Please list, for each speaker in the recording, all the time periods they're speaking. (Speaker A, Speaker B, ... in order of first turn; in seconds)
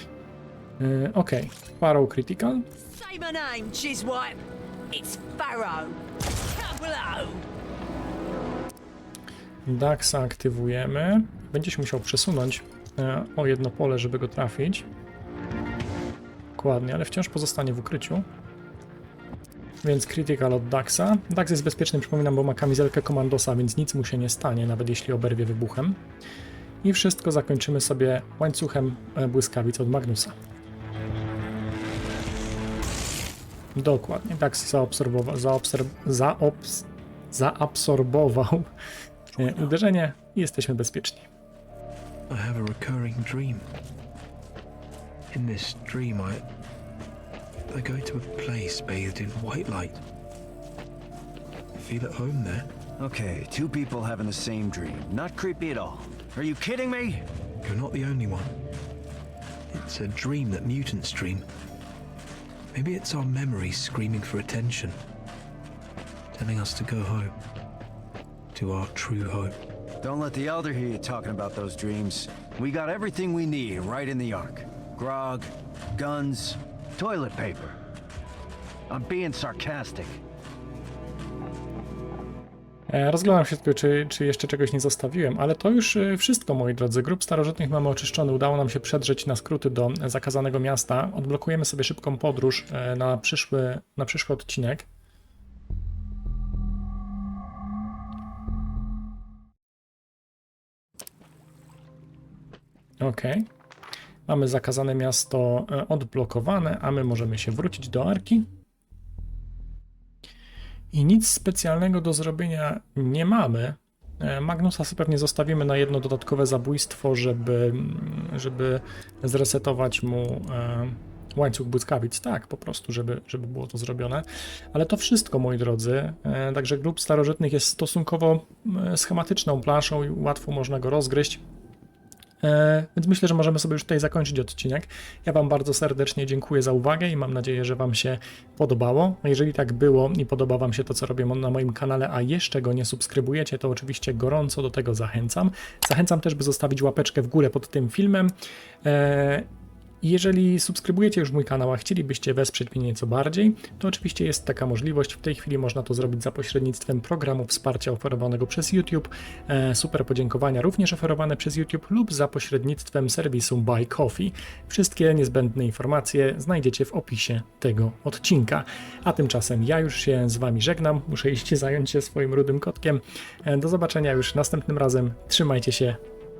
Speaker A: 0.8-2.7, 9.7-14.9, 16.6-18.2, 19.8-26.0, 26.8-30.3, 33.7-38.7, 39.4-41.3, 82.9-94.9, 103.0-103.5, 104.3-108.5, 110.9-131.4, 132.4-148.3, 148.8-149.5, 150.0-176.0
Speaker B: 2.8-7.5
Speaker C: 42.3-43.7, 45.3-46.4, 47.7-50.0, 51.8-52.7, 57.6-58.6, 59.7-61.4, 62.7-65.0, 66.3-67.3, 68.5-69.6
Speaker D: 53.0-57.3, 70.0-77.8, 78.9-80.2